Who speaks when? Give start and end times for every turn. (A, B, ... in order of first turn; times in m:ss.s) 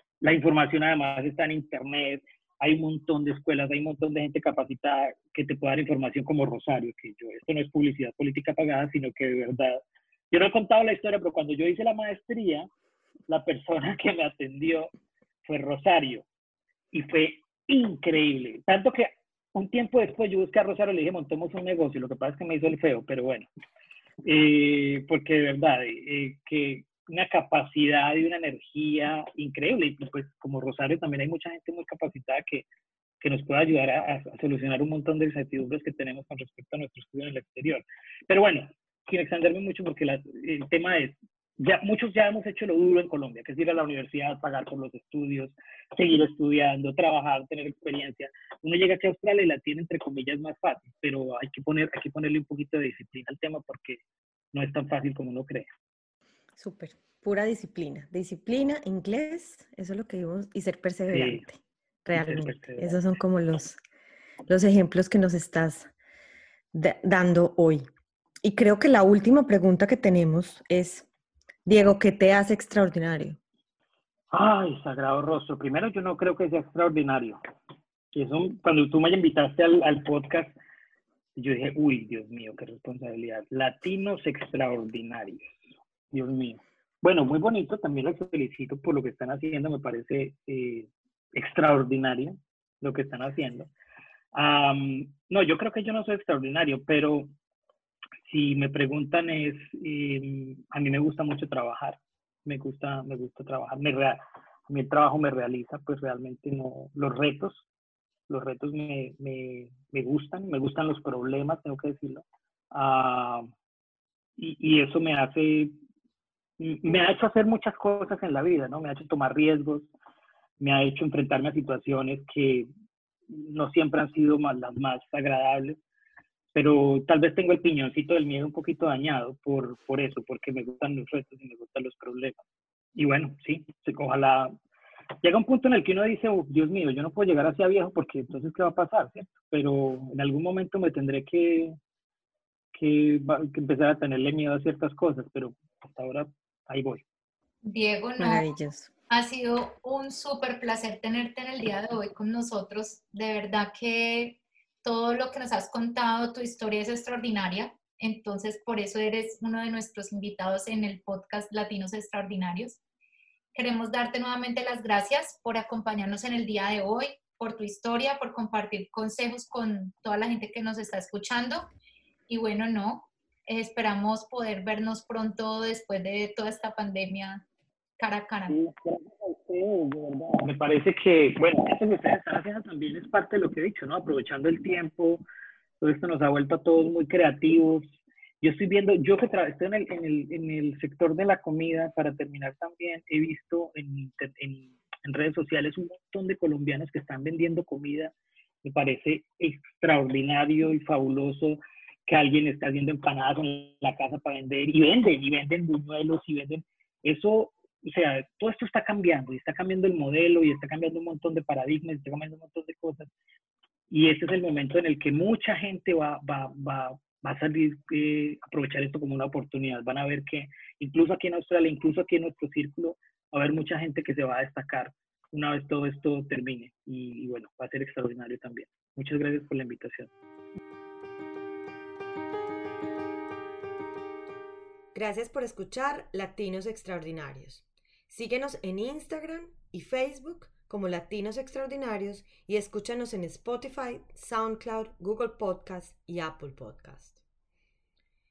0:00.2-0:12.7 A
0:13.3-0:14.9 A
0:15.4-0:16.2 A
0:16.9-0:23.5 A
0:24.2-0:32.7 A
0:33.2-0:54.0 A
0:54.5-0:55.7 A
0:56.6-1:03.8 B
1:01.1-1:01.4 A
1:02.2-1:03.0 A
1:04.5-1:05.9 B
1:06.7-1:07.8 B
1:08.4-1:11.1 B
1:11.7-1:13.4 B
1:14.3-1:17.4 A
1:18.1-1:20.6 A
1:21.4-1:33.7 A
1:34.3-1:37.3 A
1:38.3-1:47.6 A
1:48.3-1:53.5 A
1:54.4-1:55.7 A
1:56.6-1:59.9 A
2:00.6-2:02.7 A
2:03.3-2:05.8 A
2:06.5-2:12.4 A
2:13.0-2:14.6 A
2:15.2-2:21.8 A
2:22.7-2:27.0 A
2:27.6-2:28.5 C
2:28.2-2:28.9 B
2:29.1-2:42.8 C
2:43.5-2:51.7 C
2:52.3-2:57.4 C
2:58.0-2:58.6 C
2:58.5-3:05.2 A
3:05.8-3:18.1 A
3:18.6-3:33.1 A
3:33.9-3:50.1 A
3:54.9-4:07.2 B